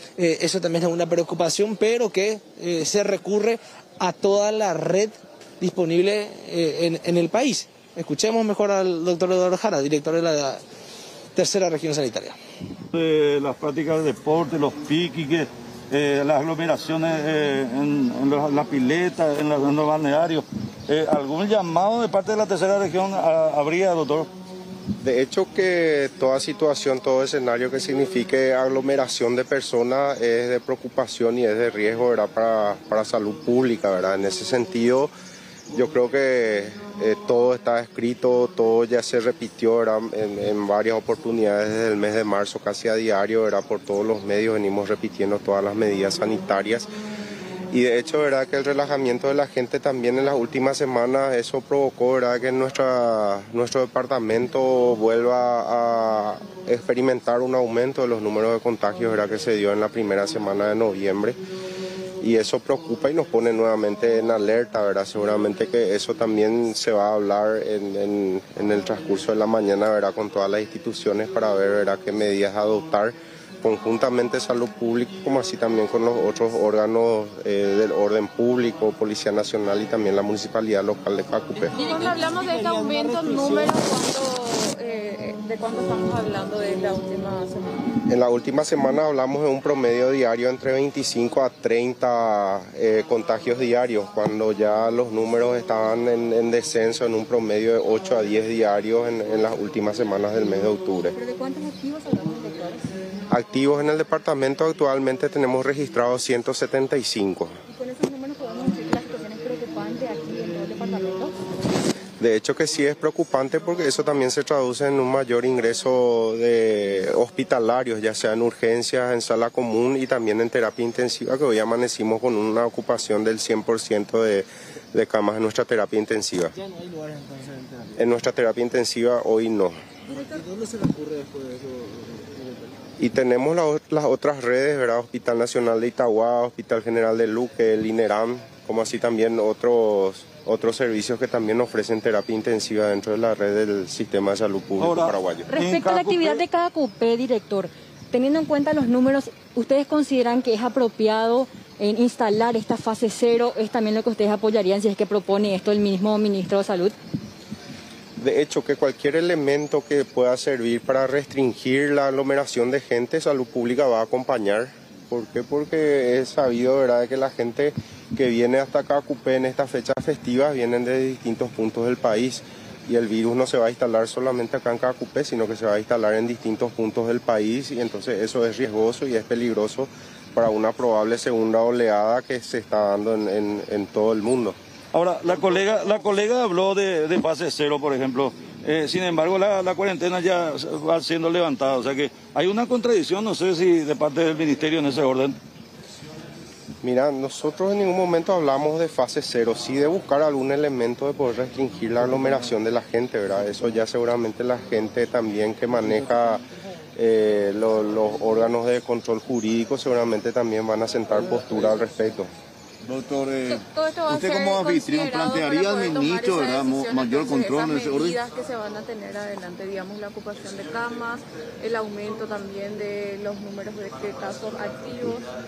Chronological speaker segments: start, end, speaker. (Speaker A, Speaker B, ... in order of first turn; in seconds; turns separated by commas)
Speaker A: 0.2-10.6, Speaker A: 11.3-12.4, Speaker B: 12.9-24.3, Speaker C: 25.0-35.1, Speaker C: 35.7-46.9, Speaker C: 47.7-61.4, Speaker C: 62.2-81.8, Speaker D: 81.7-87.8, Speaker C: 88.1-101.1, Speaker E: 101.1-102.8, Speaker C: 103.3-107.5, Speaker E: 107.7-111.3, Speaker C: 112.2-126.5, Speaker A: 126.5-128.1, Speaker C: 128.0-129.8, Speaker A: 130.1-132.8, Speaker C: 133.0-145.5, Speaker B: 144.8-146.4, Speaker E: 145.5-156.9, Speaker C: 158.2-184.6, Speaker B: 184.9-195.3, Speaker C: 196.8-206.4, Speaker C: 207.0-212.3, Speaker F: 212.8-218.2, Speaker D: 213.5-225.2